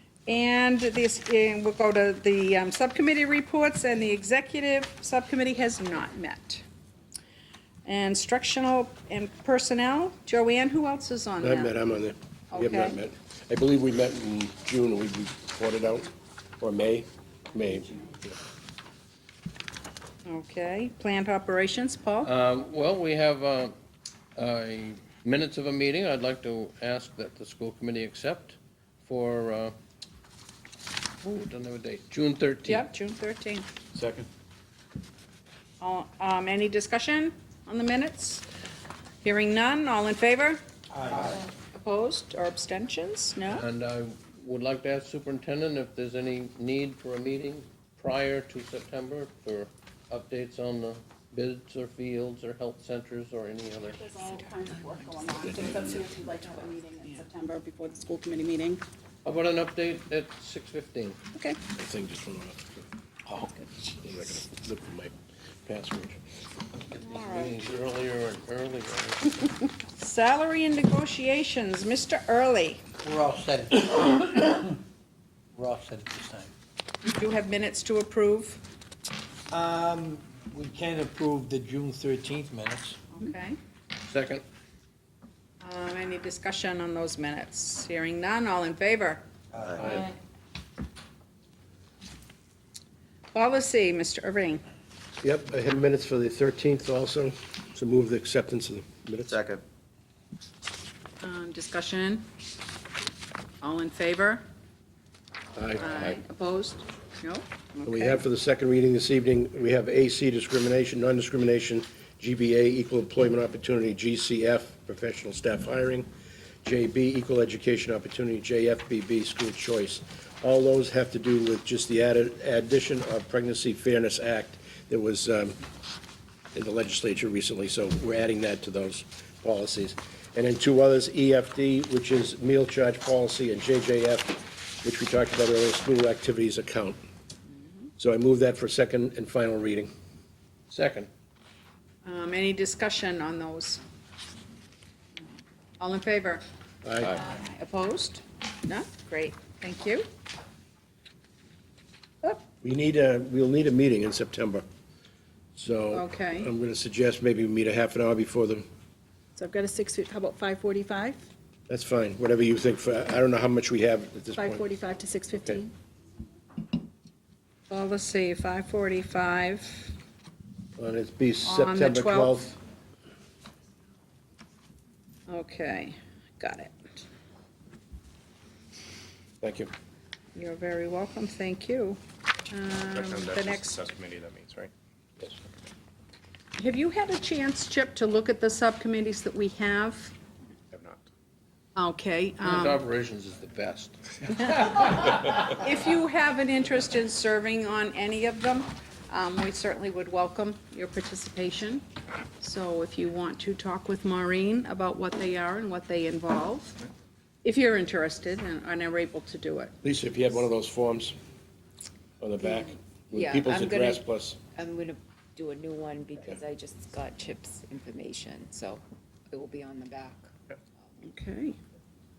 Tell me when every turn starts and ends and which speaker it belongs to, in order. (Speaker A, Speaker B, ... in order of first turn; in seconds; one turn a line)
Speaker A: 0.3-6.6
Speaker A: 7.9-11.7
Speaker B: 11.4-16.1
Speaker A: 12.5-13.0
Speaker B: 16.6-18.4
Speaker A: 20.3-22.3
Speaker C: 22.2-23.7
Speaker C: 24.4-29.7
Speaker C: 31.2-32.9
Speaker A: 32.6-33.7
Speaker A: 35.8-38.5
Speaker A: 39.2-40.6
Speaker D: 40.9-41.3
Speaker A: 41.3-43.7
Speaker C: 43.5-54.1
Speaker E: 54.0-58.8
Speaker C: 59.2-61.2
Speaker B: 61.7-62.7
Speaker B: 64.0-65.1
Speaker B: 65.7-66.2
Speaker C: 66.9-69.4
Speaker A: 67.1-67.5
Speaker A: 69.8-72.8
Speaker C: 73.0-74.7
Speaker C: 75.6-76.5
Speaker A: 77.0-78.6
Speaker D: 79.5-82.9
Speaker A: 83.1-83.6
Speaker C: 84.0-84.4
Speaker A: 85.6-89.2
Speaker D: 89.5-89.8
Speaker B: 89.8-90.1
Speaker A: 93.3-94.6
Speaker B: 95.2-99.4
Speaker F: 99.3-99.6
Speaker A: 101.2-102.3
Speaker A: 103.6-104.4
Speaker B: 105.5-106.2
Speaker A: 105.8-108.2
Speaker B: 107.9-116.1
Speaker B: 116.6-125.6
Speaker B: 126.5-137.0
Speaker B: 138.0-139.9
Speaker C: 140.7-141.1
Speaker A: 142.1-143.8
Speaker A: 145.8-146.4
Speaker B: 146.8-147.2
Speaker A: 147.0-150.1
Speaker B: 152.6-154.6
Speaker B: 155.6-158.6
Speaker A: 155.9-156.5
Speaker E: 159.4-161.2
Speaker B: 161.7-164.7
Speaker E: 164.4-165.7
Speaker A: 167.7-169.9
Speaker B: 170.8-172.6
Speaker A: 171.4-172.4
Speaker A: 175.3-177.0
Speaker B: 179.4-179.7
Speaker A: 180.3-182.0
Speaker A: 182.5-183.9
Speaker F: 182.9-184.7
Speaker A: 186.6-190.2
Speaker F: 190.7-191.1
Speaker A: 191.8-192.8
Speaker C: 192.4-195.1
Speaker A: 195.4-201.8
Speaker A: 202.4-206.8
Speaker A: 207.4-209.7
Speaker B: 209.8-211.2
Speaker B: 212.2-214.4
Speaker G: 213.1-214.0
Speaker G: 214.5-220.3
Speaker A: 221.0-221.6